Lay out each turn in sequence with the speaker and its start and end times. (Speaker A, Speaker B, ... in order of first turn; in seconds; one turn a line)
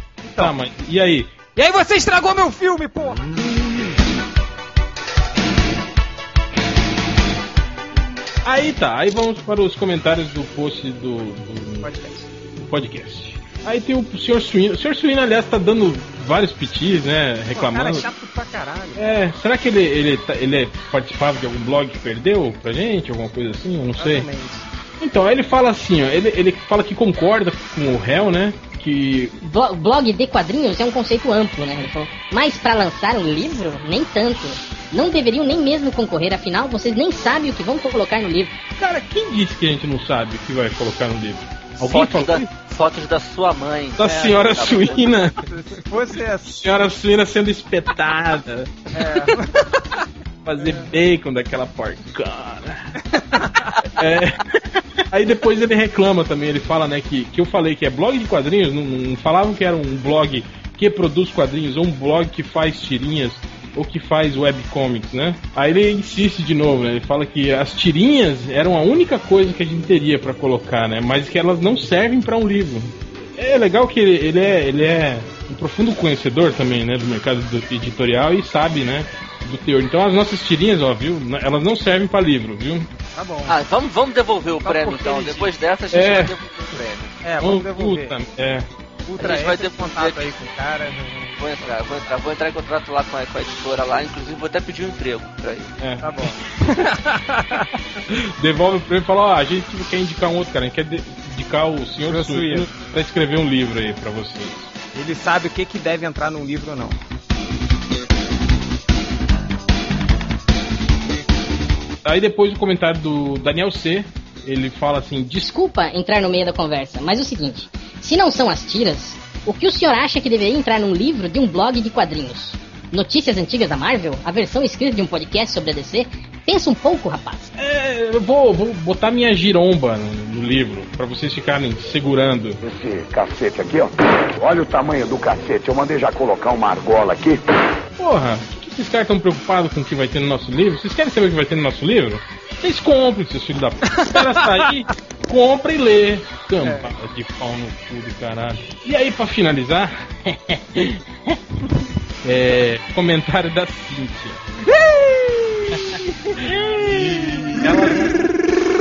Speaker A: 0.2-0.6
Speaker B: 0.4-1.3
Speaker A: 1.6-3.7
Speaker B: 8.4-11.9
Speaker A: 11.8-12.3
Speaker B: 12.6-18.1
Speaker A: 17.5-19.2
Speaker B: 19.0-24.3
Speaker A: 24.0-24.7
Speaker B: 25.0-29.4
Speaker C: 29.4-38.6
Speaker B: 38.8-42.5
Speaker D: 41.8-45.0
Speaker B: 44.0-45.4
Speaker A: 44.5-46.6
Speaker B: 46.4-49.3
Speaker A: 48.9-50.0
Speaker B: 50.5-53.0
Speaker A: 50.6-50.9
Speaker A: 53.1-53.7
Speaker B: 53.8-54.4
Speaker B: 55.1-82.9
Speaker A: 83.2-83.6
Speaker D: 83.5-87.1
Speaker A: 84.6-85.5
Speaker B: 85.9-86.3
Speaker A: 87.2-88.2
Speaker B: 87.4-88.7
Speaker A: 89.0-92.0
Speaker D: 89.2-90.3
Speaker D: 91.4-95.7
Speaker B: 95.8-96.1
Speaker A: 96.0-97.7
Speaker B: 98.1-104.7
Speaker A: 102.1-102.7
Speaker A: 104.9-107.0
Speaker B: 112.0-115.5
Speaker C: 115.4-127.5
Speaker B: 127.6-132.6
Speaker E: 132.6-137.4
Speaker B: 138.0-151.4
Speaker A: 144.0-144.7
Speaker A: 146.6-146.9
Speaker B: 152.2-154.4
Speaker A: 154.6-158.3
Speaker B: 155.8-158.2